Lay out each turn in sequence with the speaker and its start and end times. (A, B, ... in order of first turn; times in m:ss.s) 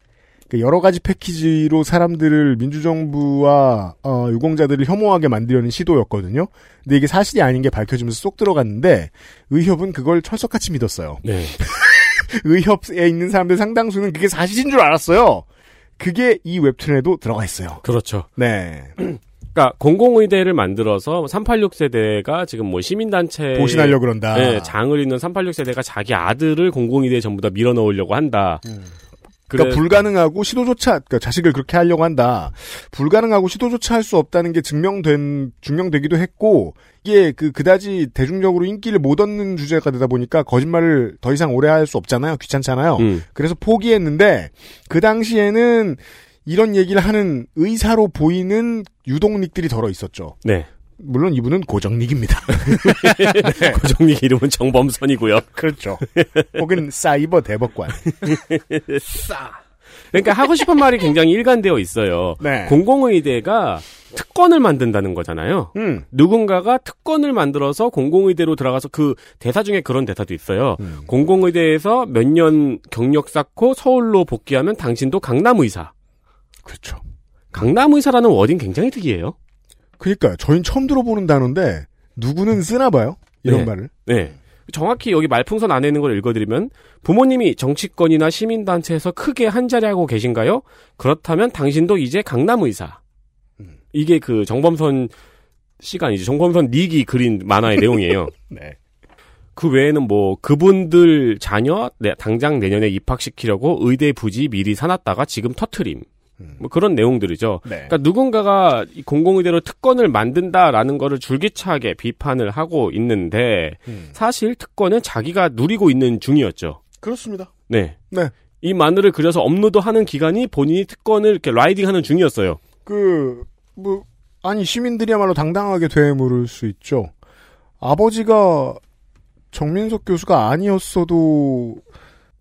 0:00.5-0:15.4 A
0:11.2-0:11.6 B
0:16.0-0:17.8 A
0:17.8-0:18.3 B
0:18.4-0:19.0 A
0:19.5-0:28.6 B
0:23.6-0:24.7 A
0:28.6-0:28.9 A
0:29.5-0:50.4 A
0:29.5-0:29.9 B
0:43.0-0:43.2 B
0:51.0-0:53.8 A
0:52.7-0:55.5 B
0:55.6-0:58.0 A
0:56.2-0:56.6 B
0:58.1-0:59.0 B
1:00.1-1:15.9 B
1:02.4-1:02.8 A
1:05.8-1:06.0 A
1:10.8-1:11.1 A
1:16.6-1:17.0 A
1:17.5-1:19.4 B
1:20.0-1:23.9 A
1:23.4-1:33.0 B
1:33.9-1:35.1 B
1:35.8-1:38.3 B
1:38.5-1:38.8 A
1:39.6-1:46.0 B
1:46.6-1:56.8 B
1:47.7-1:48.0 A
1:53.9-1:54.1 A
1:57.0-1:57.5 A
1:57.7-1:58.0 B
1:58.6-2:02.6 B
2:02.9-2:07.1 A
2:07.8-2:08.8 A
2:09.5-2:11.8 A